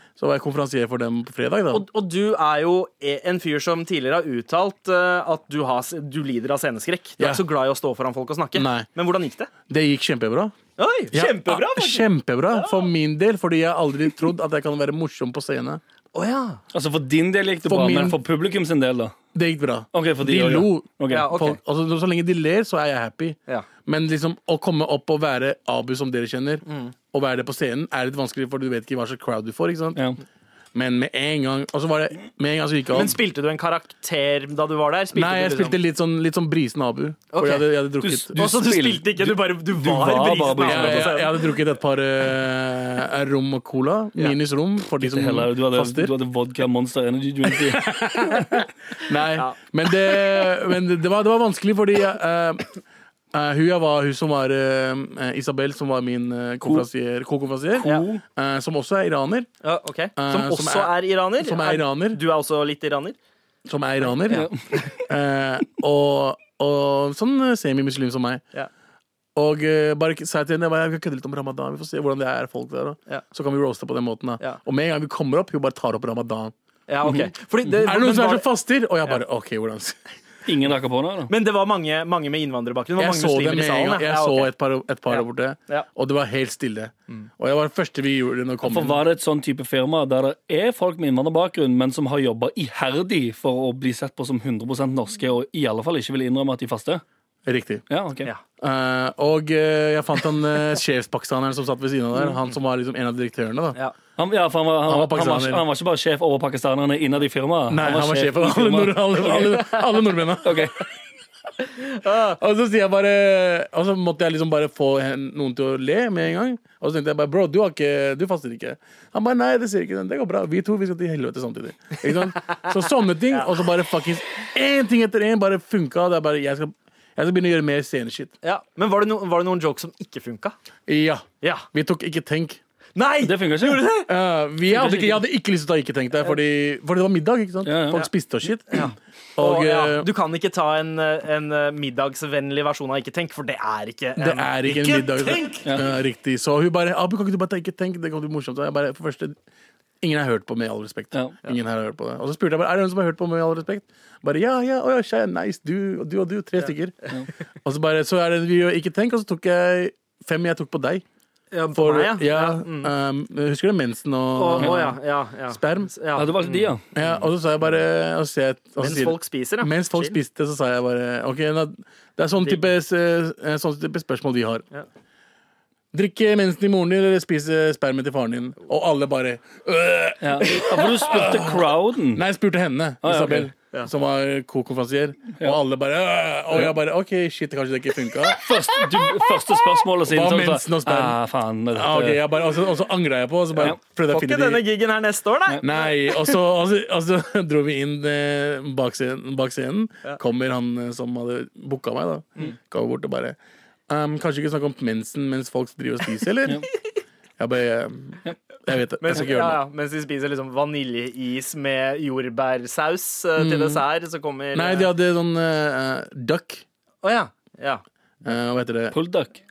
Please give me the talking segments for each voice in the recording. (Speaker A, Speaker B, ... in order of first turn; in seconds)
Speaker A: 0.2-1.8, 8.5-8.9, 9.7-10.5, 11.1-15.8, 17.6-18.2, 19.3-30.0, 30.7-33.2, 35.1-38.4, 40.6-46.1, 47.5-52.7, 53.3-59.5, 60.2-62.2, 63.6-68.4, 69.3-76.5, 77.8-80.0, 83.0-89.0, 97.5-97.8, 98.6-103.8, 104.8-105.6, 107.7-110.7, 112.2-128.3, 130.9-132.6, 134.1-140.1, 144.2-149.4, 150.0-157.1, 157.6-161.0, 161.7-164.9, 165.5-165.9, 166.9-174.6, 175.9-188.6, 190.0-191.2, 191.7-194.6, 195.6-203.4, 203.9-206.6, 207.4-209.6, 213.4-213.8, 214.5-216.6, 218.2-218.9
Speaker B: 1.7-9.5, 10.8-12.9, 16.1-16.6, 21.1-21.6, 26.6-26.9, 32.9-35.8, 37.3-37.7, 38.3-41.4, 49.3-49.6, 59.6-63.2, 76.9-78.5, 81.3-84.5, 85.1-85.9, 111.8-112.4, 122.4-122.7, 128.4-130.5, 132.9-134.1, 138.7-145.1, 161.5-162.9, 164.3-167.2, 168.8-170.2, 194.1-196.3, 209.0-214.9, 217.0-217.8
Speaker C: 16.7-19.1, 19.9-21.4, 38.0-41.2, 45.0-48.0, 57.8-58.2, 64.3-64.6, 80.5-81.3, 88.6-97.0, 97.9-98.3, 104.2-109.7, 110.4-110.8, 133.2-133.8, 134.7-135.2, 137.6-138.0, 164.6-164.9, 166.2-166.8, 180.2-182.2, 183.0-183.5, 188.3-192.2, 218.9-219.4